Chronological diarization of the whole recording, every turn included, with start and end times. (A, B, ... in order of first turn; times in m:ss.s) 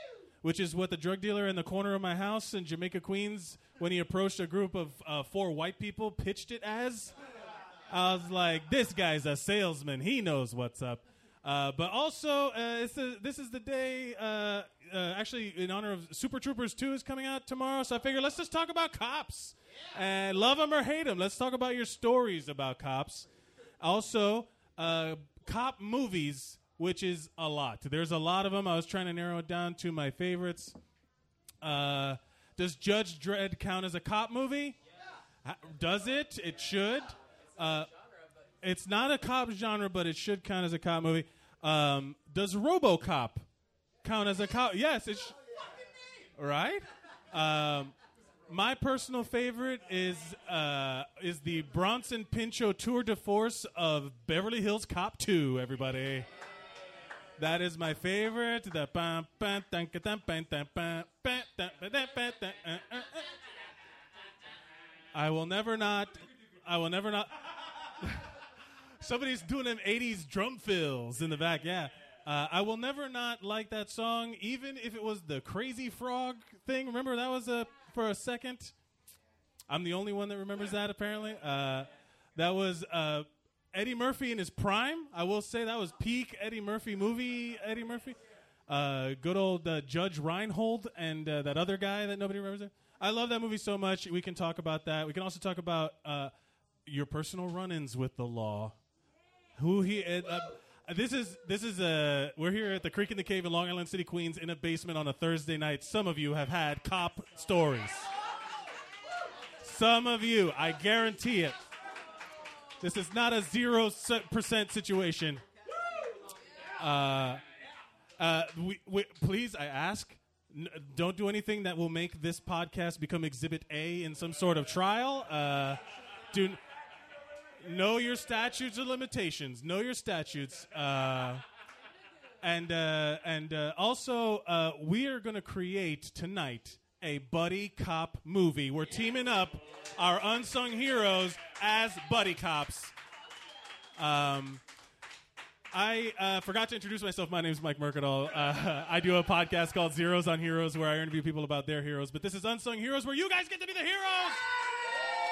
0:00.4-0:07.1 A
0:07.9-0:23.3 A
0:23.8-0:30.7 A
0:31.6-0:34.8 A
0:35.4-0:37.9 A
0:38.6-0:43.4 A
0:44.0-0:45.3 A
0:46.4-0:47.9 A
0:48.5-0:56.2 A
0:57.4-1:03.2 A
1:05.1-1:07.3 A
1:09.0-1:18.7 A
1:19.7-1:36.3 A
1:36.9-1:38.8 A
1:39.6-1:48.1 A
1:49.6-1:51.6 A
1:52.8-1:55.4 A
1:56.8-1:57.4 A
1:58.2-2:05.8 A
2:06.3-2:06.6 A
2:07.6-2:11.4 A
2:12.4-2:22.9 A
2:24.0-2:24.6 A
2:25.7-2:34.4 A